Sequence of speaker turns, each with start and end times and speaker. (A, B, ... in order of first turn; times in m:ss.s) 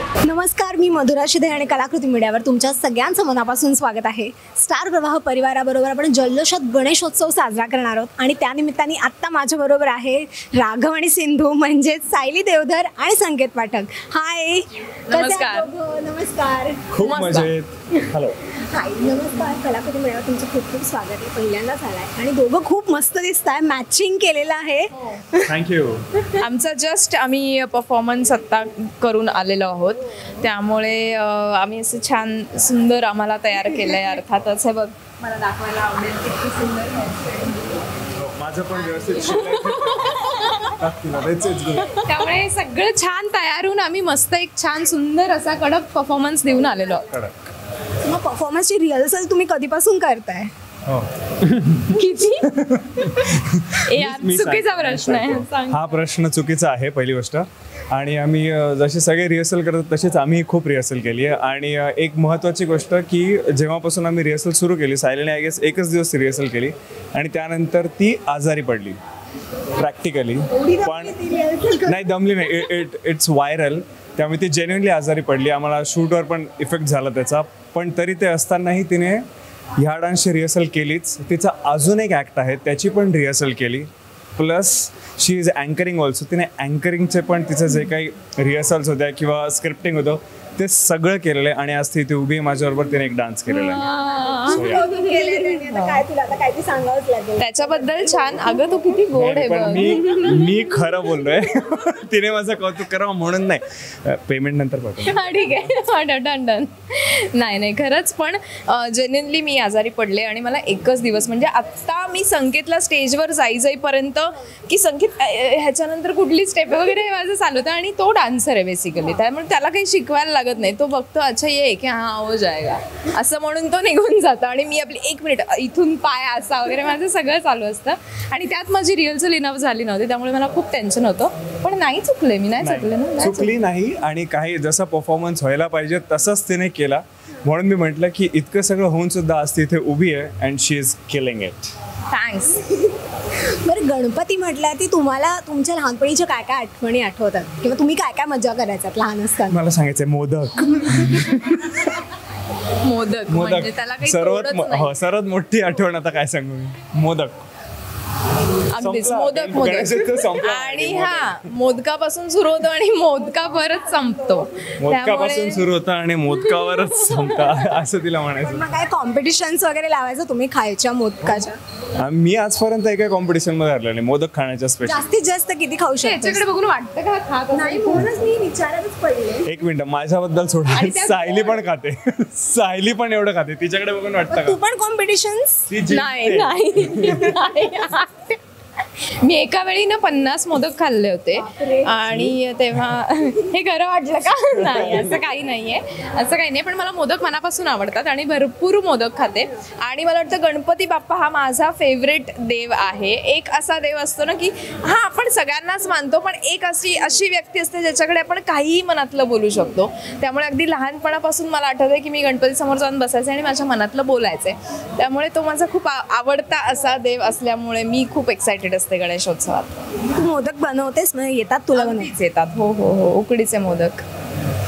0:00.2-0:16.9 A
0:15.1-0:15.7 B
0:16.9-0:18.4 C
0:17.0-0:17.5 B
0:18.5-0:25.5 A
0:25.4-0:26.0 C
0:26.4-0:37.8 B
0:38.2-0:42.1 C
0:38.8-0:40.8 B
0:41.9-0:47.1 B
0:47.1-0:47.4 C
0:48.0-0:50.5 A
0:50.9-1:09.0 C
0:51.9-0:56.0 B
1:09.8-1:11.2 C
1:10.5-1:12.1 A
1:11.8-1:19.2 C
1:19.8-1:33.9 C
1:33.5-1:36.0 B
1:34.5-1:38.5 A
1:34.5-1:34.8 C
1:37.4-1:40.5 B
1:39.1-1:45.2 C
1:45.1-2:13.5 B
2:12.6-2:21.7 C
2:22.1-2:22.7 B
2:23.5-2:29.6 A
2:29.5-2:32.0 C
2:32.8-2:34.9 B
2:33.3-2:37.5 C
2:38.7-2:45.7 B
2:38.8-2:41.5 C
2:44.8-2:48.7 C
2:46.3-2:47.6 B
2:48.4-2:51.6 A
2:52.0-2:55.1 C
2:54.8-2:56.4 A
2:56.0-2:58.1 B
2:57.5-2:59.5 A
2:59.4-3:04.6 C
3:00.7-3:01.6 B
3:04.3-3:05.7 A
3:05.7-3:07.4 C
3:05.9-3:08.4 B
3:09.0-3:39.8 B
3:11.4-3:12.0 A
3:12.1-3:12.4 C
3:14.6-3:15.2 C
3:40.2-3:42.1 A
3:41.7-3:44.0 B